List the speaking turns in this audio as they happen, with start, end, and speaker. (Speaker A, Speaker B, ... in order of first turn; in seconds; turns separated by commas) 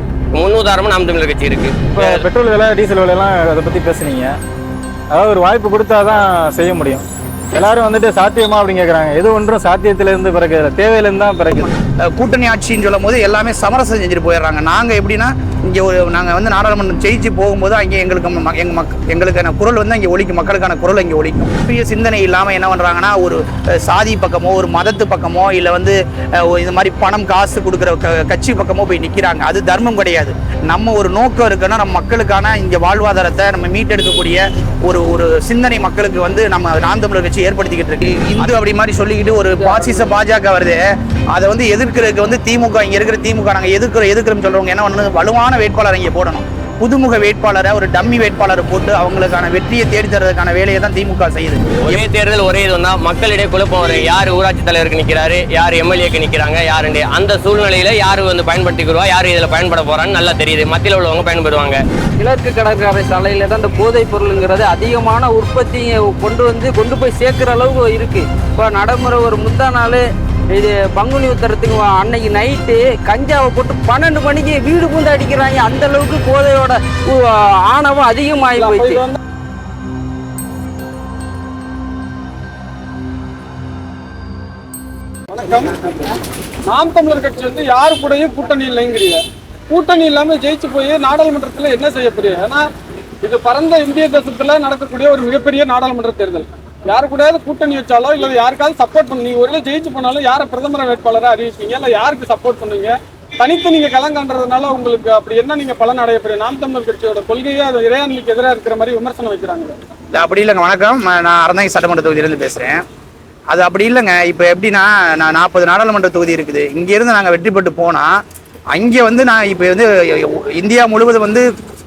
Speaker A: 0.3-2.2, Speaker B: 1.9-4.3, Speaker B: 5.1-11.7, Speaker C: 12.0-40.8, Speaker D: 39.6-40.1, Speaker C: 41.3-52.0, Speaker A: 51.8-61.8, Speaker D: 62.2-79.0, Speaker E: 78.6-79.2, Speaker E: 85.3-86.1, Speaker E: 86.7-92.6, Speaker E: 93.2-109.8, Speaker C: 110.1-112.8, Speaker C: 113.5-118.1, Speaker C: 118.7-121.5